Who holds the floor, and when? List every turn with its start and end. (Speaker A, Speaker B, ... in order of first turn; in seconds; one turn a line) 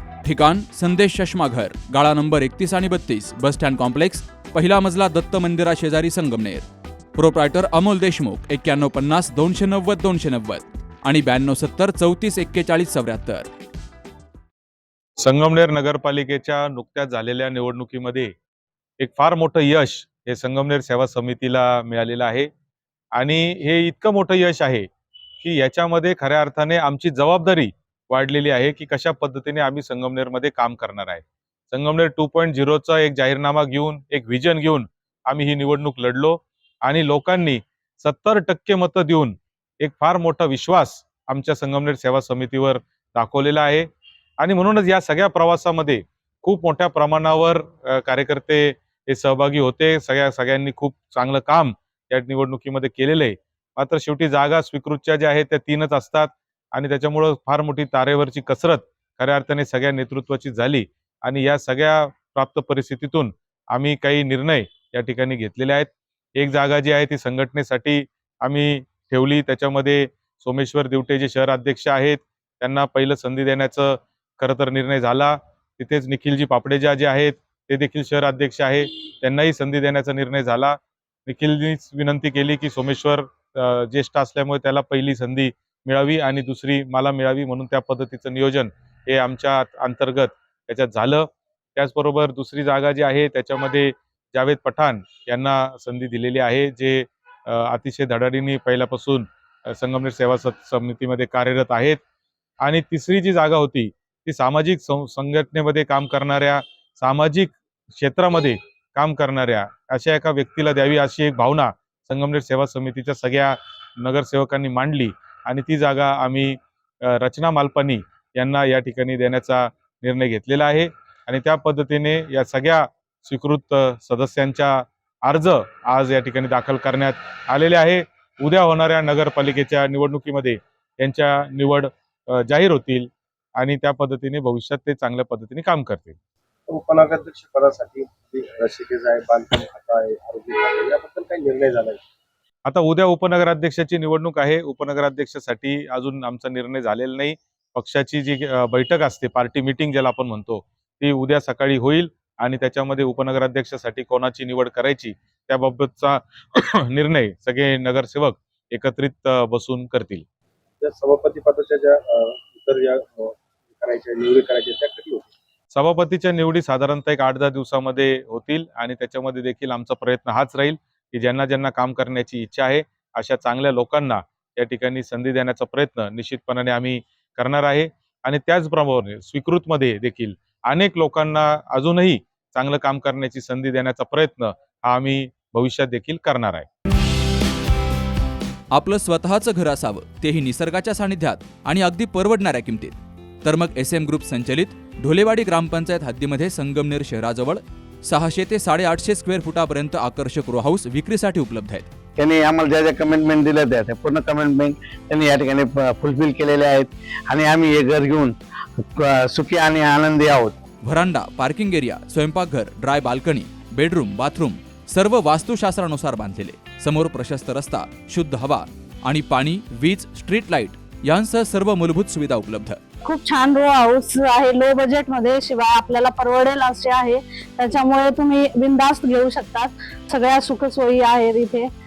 Speaker A: 0.2-13.5
Speaker B: 15.2-18.3
Speaker B: 19.0-22.5
Speaker B: 23.1-24.9
Speaker B: 25.4-43.9
Speaker B: 44.4-102.0
Speaker B: 102.6-136.2
Speaker C: 136.7-142.0
Speaker B: 142.7-160.2
Speaker C: 160.8-165.3
Speaker B: 165.7-186.7
Speaker A: 188.7-201.9
Speaker D: 202.2-210.6
Speaker A: 210.8-222.8
Speaker E: 223.1-231.7